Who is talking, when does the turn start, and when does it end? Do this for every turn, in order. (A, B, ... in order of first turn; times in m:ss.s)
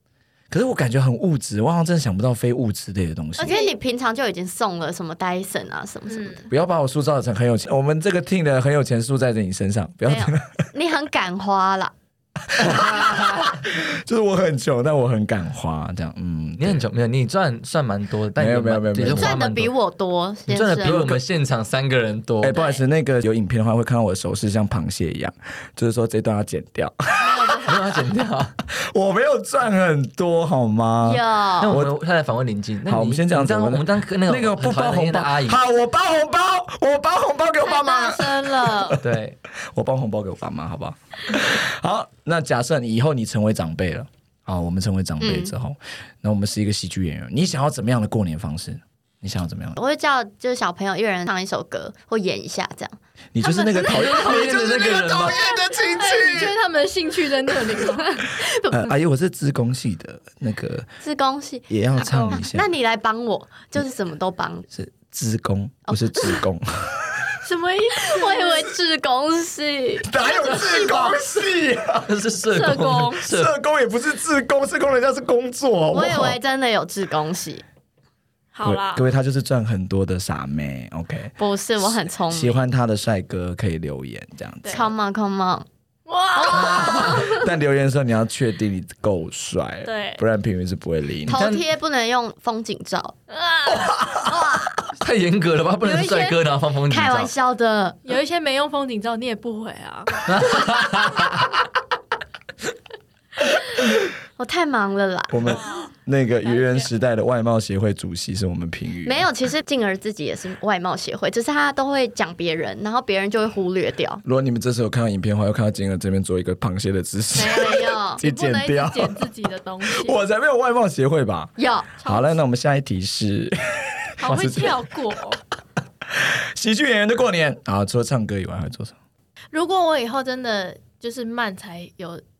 0:00.5-0:03.6 A
0:03.4-0:06.5 B
0:03.4-0:03.7 C
0:06.1-0:06.5 C
0:06.5-0:10.5 A
0:10.0-0:11.9 B
0:12.4-0:16.8 A
0:12.8-0:13.4 D
0:16.6-0:19.7 D
0:18.4-0:19.4 A
0:19.0-0:21.2 B
0:20.5-0:22.5 D
0:20.9-0:21.2 A
0:22.4-0:27.6 A
0:22.5-0:22.8 B
0:27.2-0:27.7 B
0:27.6-0:28.5 D
0:28.7-0:31.9 A
0:31.0-0:31.8 B
0:31.6-0:35.6 D
0:32.9-0:39.0 A
0:37.7-0:38.9 B
0:37.9-0:38.9 C
0:39.0-0:39.4 D
0:39.6-0:49.8 A
0:45.2-0:45.5 B
0:49.8-0:52.9 B
0:53.3-0:56.5 A
0:53.5-0:54.6 C
0:53.8-0:55.5 D
0:55.9-0:58.2 C
0:58.1-0:58.9 B
0:58.7-1:00.9 A
1:01.0-1:01.7 B
1:01.7-1:02.7 A
1:02.0-1:02.4 C
1:02.3-1:04.7 B
1:04.7-1:07.3 A
1:05.9-1:06.4 B
1:07.4-1:08.6 C
1:08.0-1:10.1 B
1:10.0-1:12.1 A
1:10.2-1:11.2 C
1:12.1-1:13.5 D
1:12.5-1:13.3 C
1:13.2-1:16.4 A
1:15.9-1:17.6 B
1:18.5-1:19.0 C
1:18.6-1:24.8 A
1:21.4-1:22.6 B
1:24.6-1:24.9 C
1:24.7-1:25.6 B
1:26.1-1:27.5 C
1:26.4-1:27.2 B
1:26.5-1:31.4 A
1:29.8-1:30.2 C
1:31.3-1:33.2 B
1:31.3-1:31.6 D
1:33.3-1:34.5 C
1:34.1-1:34.7 B
1:35.0-1:37.3 D
1:35.8-1:36.3 C
1:36.9-1:38.0 B
1:38.0-1:40.3 C
1:40.3-1:41.3 D
1:44.4-1:45.5 B
1:45.3-1:49.2 A
1:45.5-1:45.9 C
1:46.4-1:46.9 C
1:49.0-1:54.2 B
1:54.2-1:59.3 A
1:57.3-1:58.2 B
1:57.7-2:00.2 C
1:59.8-2:04.8 A
2:01.6-2:02.0 B
2:04.2-2:05.4 C
2:06.1-2:08.9 A
2:09.5-2:12.2 C